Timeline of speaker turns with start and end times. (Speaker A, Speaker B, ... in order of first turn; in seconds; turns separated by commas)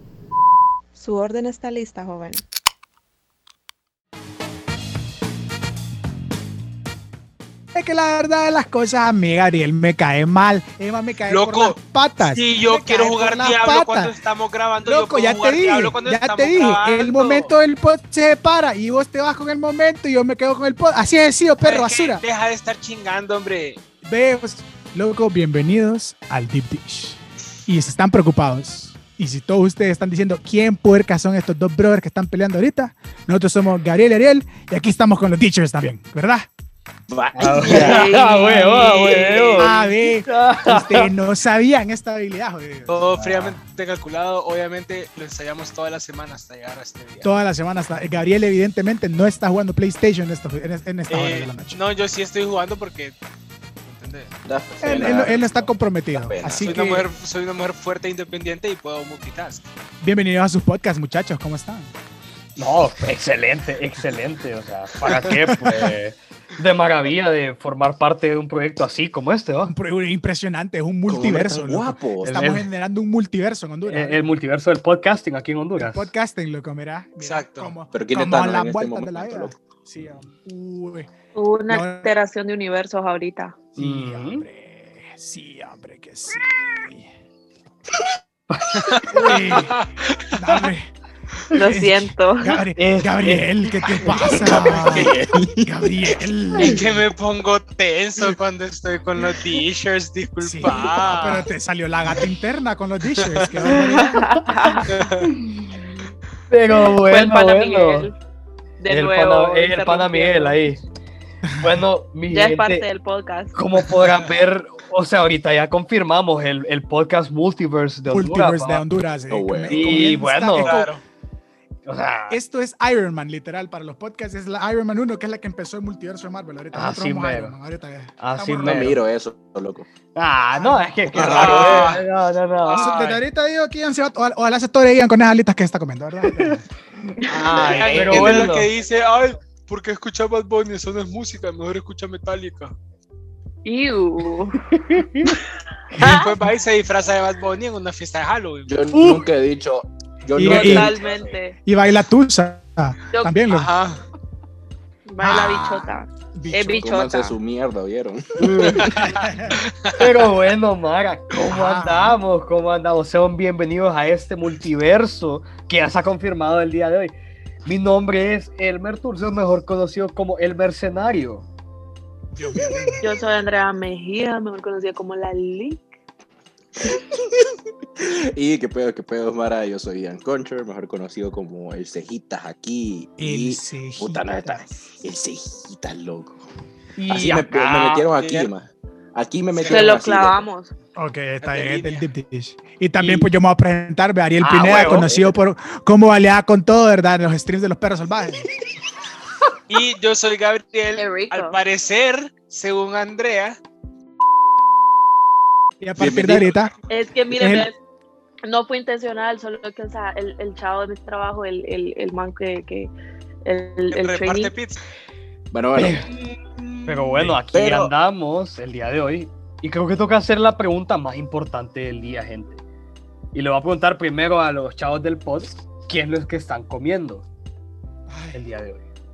Speaker A: 1.0-2.4, Speaker B: 7.7-14.1, Speaker C: 11.3-17.5, Speaker B: 14.8-22.2, Speaker C: 21.6-23.8, Speaker B: 24.0-36.5, Speaker D: 37.1-38.1, Speaker E: 37.4-41.1, Speaker A: 37.7-39.4, Speaker C: 38.5-39.9, Speaker B: 39.6-43.0, Speaker C: 42.9-47.4, Speaker E: 43.2-43.6, Speaker B: 47.2-51.8, Speaker C: 51.1-53.1, Speaker C: 53.8-54.3, Speaker D: 54.4-56.7, Speaker B: 54.8-57.1, Speaker C: 56.6-59.6, Speaker B: 60.0-61.9, Speaker E: 62.6-69.7, Speaker B: 69.7-74.2, Speaker D: 71.1-72.3, Speaker E: 72.2-72.7, Speaker E: 73.8-76.1, Speaker B: 75.8-81.1, Speaker C: 77.2-77.8, Speaker D: 77.9-79.5, Speaker A: 81.3-83.6, Speaker B: 81.7-82.1, Speaker E: 83.8-84.4, Speaker B: 83.8-87.1, Speaker E: 88.5-89.6, Speaker C: 88.7-90.7, Speaker B: 89.1-90.9, Speaker B: 91.5-97.0, Speaker A: 91.5-92.6, Speaker E: 92.8-94.6, Speaker D: 94.1-96.1, Speaker C: 94.8-95.1, Speaker C: 96.5-101.5, Speaker B: 100.4-104.4, Speaker C: 103.1-103.7, Speaker A: 103.7-105.0, Speaker C: 104.8-105.3, Speaker E: 106.5-108.1, Speaker A: 106.9-108.2, Speaker A: 108.8-110.6, Speaker E: 108.9-110.8, Speaker E: 111.6-112.8, Speaker A: 112.3-113.5, Speaker E: 113.5-118.8, Speaker B: 118.1-120.9, Speaker D: 119.3-120.0, Speaker E: 119.7-120.8, Speaker C: 120.6-121.0, Speaker E: 121.8-122.4, Speaker B: 122.3-128.9, Speaker E: 126.7-127.5, Speaker E: 128.2-129.0, Speaker D: 128.6-129.9, Speaker E: 130.1-132.9, Speaker B: 130.6-131.5, Speaker C: 131.1-132.0, Speaker D: 131.2-132.0, Speaker C: 132.6-133.2, Speaker B: 132.7-136.6, Speaker A: 137.2-138.0, Speaker E: 137.3-138.7, Speaker C: 137.5-142.7, Speaker B: 138.1-138.4, Speaker A: 143.6-144.6, Speaker E: 144.7-145.3, Speaker B: 145.9-146.4, Speaker A: 145.9-146.3, Speaker C: 146.0-148.7, Speaker D: 148.7-151.1, Speaker B: 148.9-149.2, Speaker B: 150.3-150.9, Speaker A: 150.4-151.6, Speaker B: 151.6-153.7, Speaker C: 153.5-154.0, Speaker A: 155.1-157.3, Speaker B: 155.2-156.9, Speaker D: 156.8-158.9, Speaker E: 158.4-158.9, Speaker B: 158.9-159.6, Speaker C: 158.9-160.1, Speaker E: 159.9-167.1, Speaker B: 161.5-162.2, Speaker E: 167.7-171.4, Speaker B: 172.3-173.1, Speaker A: 173.0-175.8, Speaker D: 176.8-186.4, Speaker B: 183.2-184.8, Speaker E: 187.0-188.1, Speaker D: 187.1-190.4, Speaker C: 188.1-188.5, Speaker C: 189.6-190.0, Speaker A: 189.7-190.7, Speaker B: 190.9-198.5, Speaker C: 191.4-192.1, Speaker E: 193.0-193.3, Speaker E: 194.4-195.1, Speaker D: 194.7-195.3, Speaker C: 199.7-203.6, Speaker A: 200.9-201.6, Speaker B: 205.8-206.7, Speaker D: 206.0-206.5, Speaker A: 206.9-207.7, Speaker B: 207.3-207.7, Speaker A: 208.4-212.9, Speaker A: 213.4-214.5, Speaker C: 213.9-214.8, Speaker D: 215.5-216.1, Speaker E: 215.8-216.1, Speaker E: 216.9-222.6, Speaker D: 217.5-217.9, Speaker E: 223.3-227.2, Speaker B: 228.1-228.4, Speaker E: 228.3-228.8